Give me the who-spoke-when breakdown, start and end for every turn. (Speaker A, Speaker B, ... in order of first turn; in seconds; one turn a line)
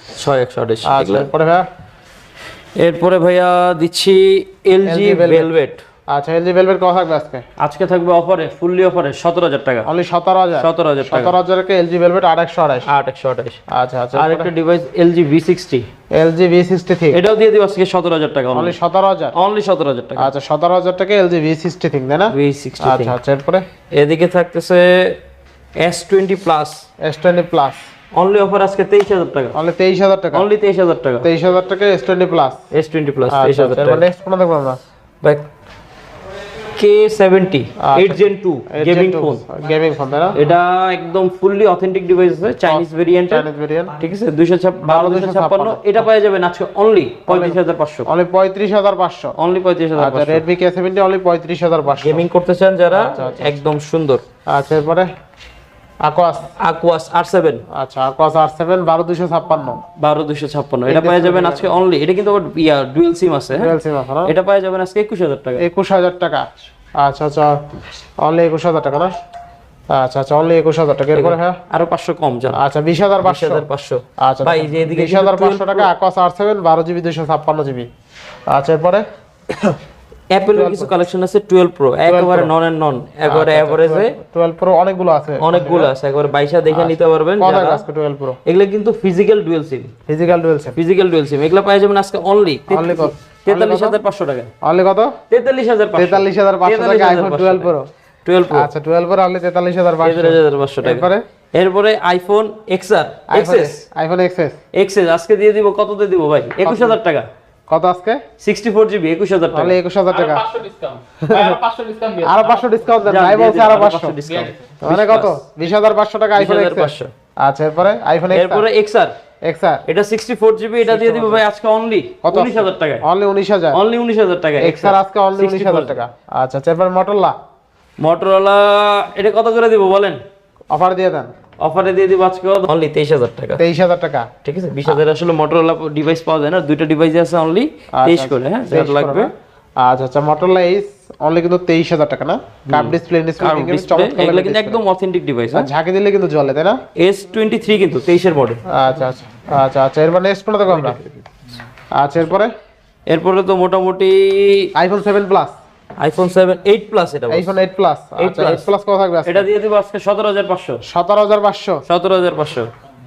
Speaker A: 0.1-1.3
Speaker B: 0.8-1.6
Speaker A: 2.8-5.8
Speaker B: 4.8-5.5
Speaker B: 6.1-7.4
Speaker A: 7.6-9.9
Speaker B: 9.8-12.9
Speaker A: 10.6-11.3
Speaker A: 12.8-13.6
Speaker B: 13.7-14.5
Speaker A: 14.1-15.9
Speaker B: 16.1-17.2
Speaker A: 17.1-18.8
Speaker B: 18.5-19.3
Speaker A: 19.3-20.3
Speaker B: 20.2-23.6
Speaker A: 22.3-23.1
Speaker A: 23.9-25.2
Speaker A: 25.8-26.8
Speaker B: 27.0-27.8
Speaker A: 28.1-29.5
Speaker B: 29.5-30.5
Speaker A: 30.3-31.3
Speaker B: 31.2-32.6
Speaker A: 32.7-34.0
Speaker B: 33.3-34.8
Speaker A: 35.2-35.5
Speaker A: 36.8-39.4
Speaker B: 37.8-40.4
Speaker A: 40.3-43.5
Speaker B: 42.7-44.0
Speaker A: 44.0-48.1
Speaker B: 44.8-46.0
Speaker B: 47.3-49.3
Speaker A: 49.4-50.4
Speaker B: 50.0-52.2
Speaker A: 52.0-54.2
Speaker B: 52.9-53.5
Speaker B: 54.5-55.1
Speaker B: 56.0-56.5
Speaker A: 56.6-57.6
Speaker B: 57.7-59.8
Speaker A: 60.0-65.6
Speaker B: 60.9-61.7
Speaker B: 63.5-64.3
Speaker B: 65.6-66.5
Speaker B: 67.0-67.6
Speaker B: 68.2-69.1
Speaker B: 69.9-71.6
Speaker A: 71.1-72.6
Speaker B: 72.5-73.6
Speaker A: 73.2-75.9
Speaker B: 74.2-77.9
Speaker B: 78.5-79.8
Speaker A: 80.3-84.1
Speaker B: 80.5-80.9
Speaker B: 82.0-82.5
Speaker B: 83.2-85.9
Speaker A: 85.4-87.8
Speaker B: 86.7-88.4
Speaker A: 88.5-89.9
Speaker B: 90.1-90.8
Speaker A: 90.8-94.5
Speaker B: 92.7-94.0
Speaker B: 94.6-95.2
Speaker A: 95.3-97.7
Speaker B: 96.0-97.9
Speaker A: 98.2-98.7
Speaker B: 98.5-101.2
Speaker A: 100.0-103.8
Speaker B: 103.3-104.6
Speaker A: 104.7-107.3
Speaker B: 106.6-107.0
Speaker B: 107.7-108.2
Speaker A: 108.4-109.8
Speaker B: 109.5-110.5
Speaker C: 110.2-112.7
Speaker B: 111.2-111.6
Speaker B: 112.2-114.2
Speaker A: 113.0-115.4
Speaker B: 114.8-118.6
Speaker A: 116.3-117.1
Speaker A: 118.3-119.1
Speaker B: 119.4-119.8
Speaker A: 119.8-123.0
Speaker B: 120.8-121.4
Speaker B: 122.2-123.8
Speaker A: 123.7-126.0
Speaker B: 124.6-127.3
Speaker A: 128.0-130.2
Speaker B: 130.7-131.3
Speaker A: 131.6-133.6
Speaker B: 133.6-134.3
Speaker A: 134.4-139.3
Speaker B: 138.0-144.8
Speaker A: 142.7-145.7
Speaker B: 145.5-146.8
Speaker A: 146.9-148.6
Speaker B: 148.7-151.0
Speaker A: 150.7-151.2
Speaker B: 151.9-152.5
Speaker A: 153.1-154.7
Speaker B: 154.8-155.6
Speaker A: 156.0-157.6
Speaker B: 157.3-159.5
Speaker A: 158.2-158.7
Speaker A: 159.2-160.8
Speaker B: 160.8-161.8
Speaker A: 161.8-162.7